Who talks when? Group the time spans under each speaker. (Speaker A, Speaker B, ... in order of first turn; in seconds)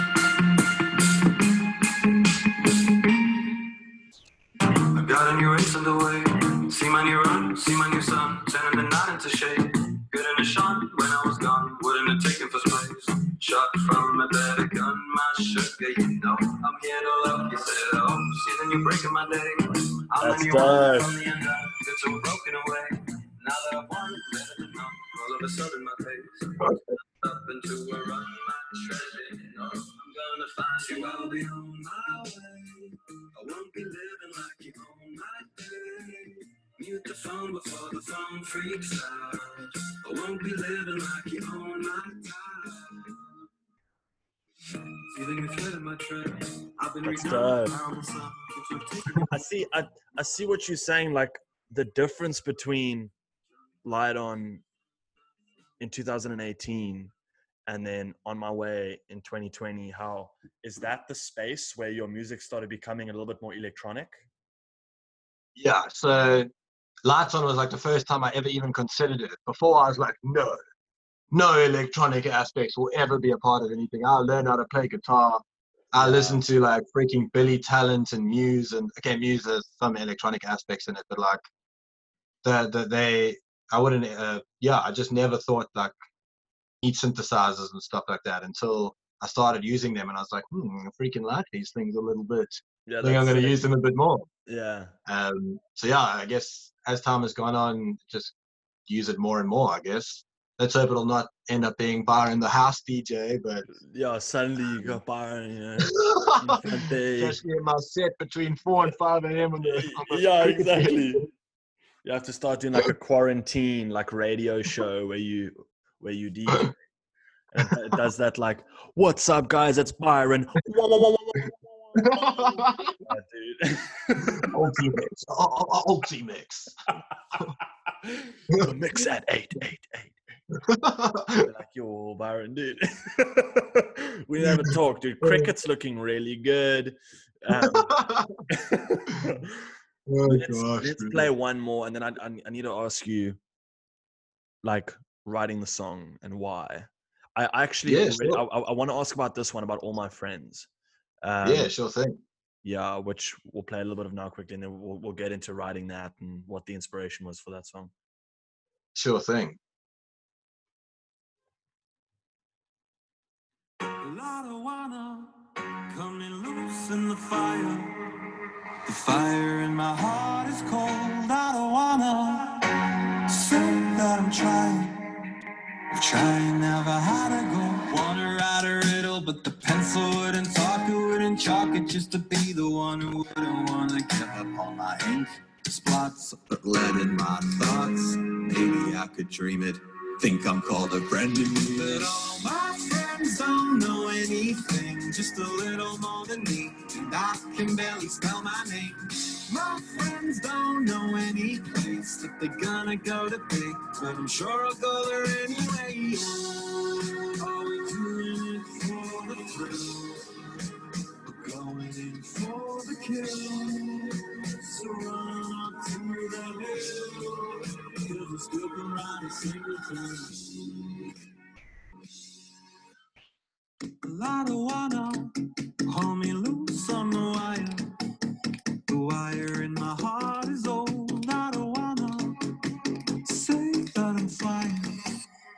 Speaker A: 4.9-43.2, 44.9-49.3, 164.0-165.3, 165.9-168.0, 168.8-175.3, 175.9-210.3, 211.3-221.1, 224.0-225.3, 225.9-227.9, 228.9-232.4, 233.2-235.0
Speaker B: 20.2-21.1, 47.0-47.8, 49.3-53.1, 53.9-54.6, 55.8-57.1, 57.7-64.2, 76.0-76.4, 92.9-93.7, 94.5-94.9, 103.8-107.4, 109.7-111.3, 112.0-116.8, 117.5-124.5, 127.3-130.2, 131.4-139.7, 140.3-143.4, 144.6-150.7, 151.2-151.7, 152.6-157.9
Speaker C: 65.6-66.5, 67.0-70.6, 71.3-81.4, 82.4-85.9, 86.8-94.3, 95.1-98.3, 98.9-103.7, 105.8-111.2, 122.0-123.0, 124.2-126.7, 130.6-131.5, 134.4-135.5, 137.7-138.3, 140.1-141.3, 147.8-148.4, 151.4-152.2, 158.9-159.6